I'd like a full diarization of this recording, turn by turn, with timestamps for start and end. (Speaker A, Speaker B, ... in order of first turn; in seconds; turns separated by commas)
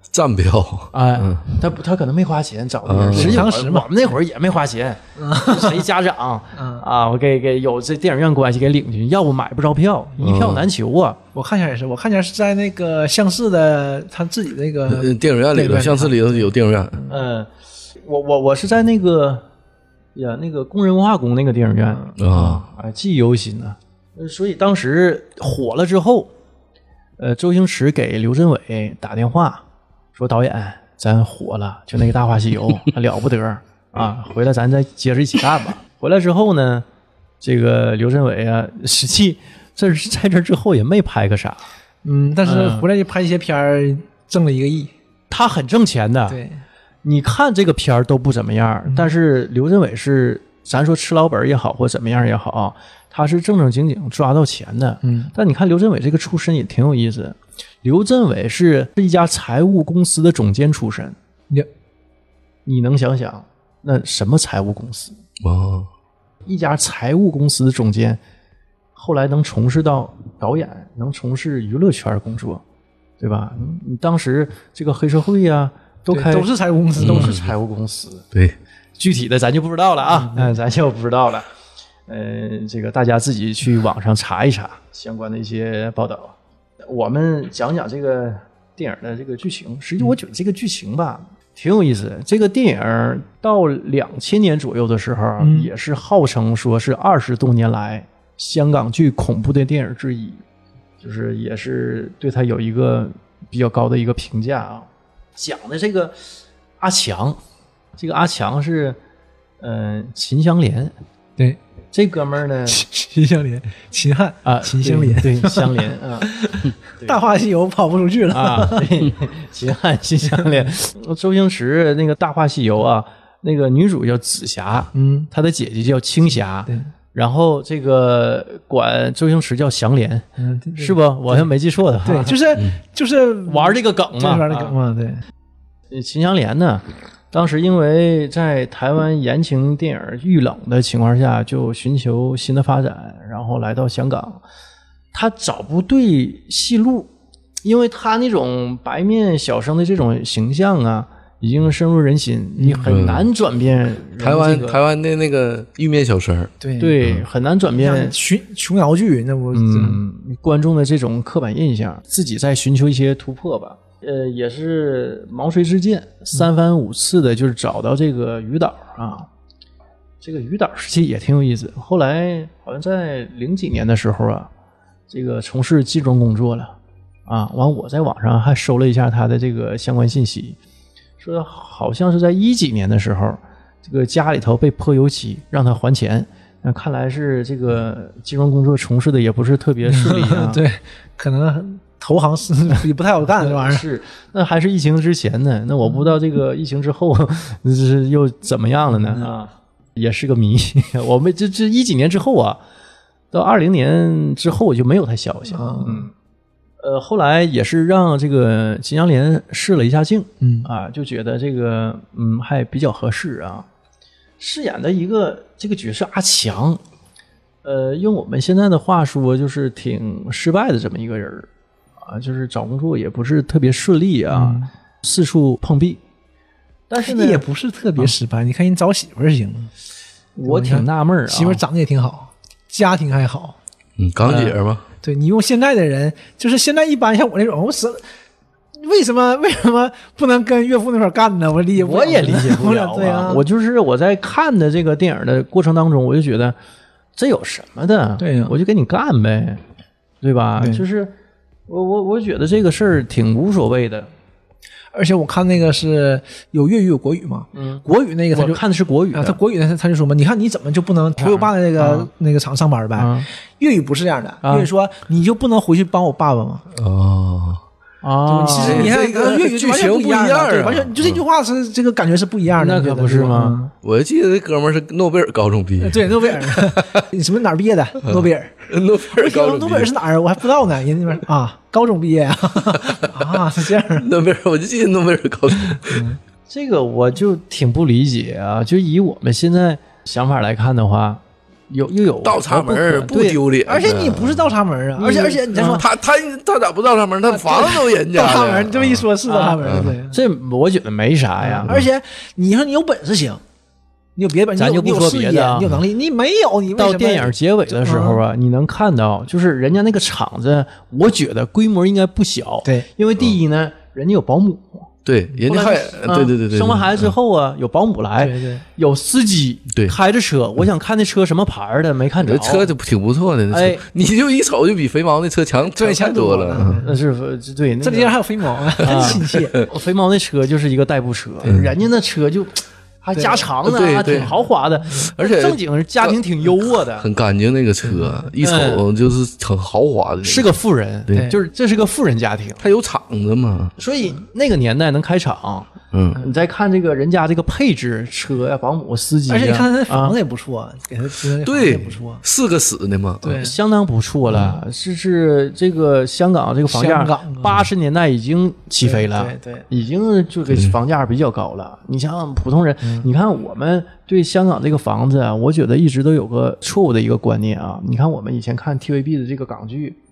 Speaker A: 0.1-1.5, Speaker B: 0.9-11.2, Speaker A: 2.8-3.5, Speaker C: 3.1-3.9, Speaker C: 5.2-5.8, Speaker C: 6.5-6.8, Speaker A: 10.2-10.6, Speaker C: 11.3-17.2, Speaker A: 14.8-17.0, Speaker B: 17.1-19.4, Speaker B: 20.1-26.3, Speaker A: 22.2-22.6, Speaker B: 27.2-29.6, Speaker B: 30.1-36.9, Speaker B: 37.4-41.6, Speaker C: 42.0-44.9, Speaker B: 42.4-42.9, Speaker B: 45.3-46.4, Speaker C: 46.3-46.6, Speaker B: 47.0-61.1, Speaker C: 55.0-55.3, Speaker B: 62.6-65.2, Speaker A: 65.4-65.9, Speaker B: 66.5-68.2, Speaker B: 69.0-72.6, Speaker B: 73.2-78.2, Speaker C: 76.1-77.4, Speaker A: 77.0-77.5, Speaker B: 79.0-81.5, Speaker C: 80.1-80.5, Speaker B: 82.1-100.4, Speaker C: 95.4-95.7, Speaker B: 101.0-106.2, Speaker B: 106.8-107.4, Speaker B: 108.0-109.0, Speaker B: 109.6-110.9, Speaker B: 111.9-112.8, Speaker C: 112.7-119.1, Speaker B: 114.4-116.3, Speaker B: 118.3-132.4, Speaker C: 124.9-125.3, Speaker C: 130.4-131.5, Speaker C: 132.0-135.2, Speaker B: 133.5-134.7, Speaker B: 135.9-144.4, Speaker B: 145.1-147.1, Speaker B: 147.6-154.8, Speaker C: 152.6-153.0, Speaker A: 152.8-153.3, Speaker A: 154.2-156.5, Speaker C: 156.6-157.0, Speaker B: 156.8-158.1, Speaker C: 157.7-160.0, Speaker B: 159.5-169.3, Speaker B: 170.2-174.5, Speaker B: 175.1-176.8, Speaker B: 177.3-180.6, Speaker B: 181.2-190.6, Speaker C: 189.8-193.8, Speaker B: 193.4-202.6, Speaker B: 203.3-206.1, Speaker C: 205.5-206.1, Speaker B: 206.8-213.7, Speaker C: 210.4-210.7, Speaker B: 214.4-216.8, Speaker B: 217.6-221.5, Speaker B: 222.0-226.0, Speaker C: 224.3-224.7, Speaker B: 226.9-227.4, Speaker C: 227.0-229.7, Speaker B: 230.3-231.6, Speaker C: 230.4-233.6, Speaker A: 234.0-234.8, Speaker B: 234.2-234.6, Speaker C: 235.0-238.0, Speaker C: 238.8-243.4, Speaker B: 241.8-246.6, Speaker B: 247.2-249.6, Speaker C: 248.2-248.5, Speaker B: 250.2-251.1, Speaker B: 251.7-254.1, Speaker C: 254.9-258.6, Speaker B: 257.5-259.4, Speaker C: 259.1-266.6, Speaker B: 261.2-262.1, Speaker B: 263.0-263.3, Speaker B: 264.4-264.7, Speaker A: 266.7-267.6, Speaker B: 268.0-268.9, Speaker C: 268.3-273.7, Speaker A: 268.6-271.2, Speaker B: 272.6-273.6, Speaker A: 273.8-276.9, Speaker C: 275.8-284.1, Speaker A: 278.0-279.9, Speaker A: 283.9-286.1, Speaker C: 285.9-286.2, Speaker B: 286.5-293.4, Speaker A: 292.2-294.4, Speaker C: 293.6-295.9, Speaker B: 295.0-295.8, Speaker A: 295.6-299.1, Speaker C: 297.3-300.2, Speaker B: 299.3-301.7, Speaker A: 299.6-299.9, Speaker C: 301.4-303.4, Speaker C: 304.1-308.2, Speaker B: 304.6-305.7, Speaker B: 306.7-314.9, Speaker A: 315.0-317.1, Speaker B: 315.4-322.7, Speaker C: 318.2-318.6, Speaker A: 322.2-326.8, Speaker B: 323.5-323.8, Speaker C: 325.7-327.0, Speaker B: 326.6-328.2, Speaker C: 327.8-329.6, Speaker B: 328.8-337.1, Speaker C: 333.1-333.5, Speaker A: 333.6-334.3, Speaker A: 335.0-336.1, Speaker A: 336.9-340.5, Speaker C: 337.8-338.2, Speaker B: 338.4-338.8, Speaker B: 340.2-342.6, Speaker C: 341.1-341.4, Speaker A: 342.6-343.7, Speaker B: 343.8-350.1, Speaker A: 345.9-346.2, Speaker C: 349.3-352.2, Speaker A: 351.4-353.2, Speaker C: 353.2-353.6, Speaker B: 353.2-370.0, Speaker C: 354.3-354.6, Speaker C: 356.7-357.6, Speaker C: 358.8-359.7, Speaker A: 360.5-360.7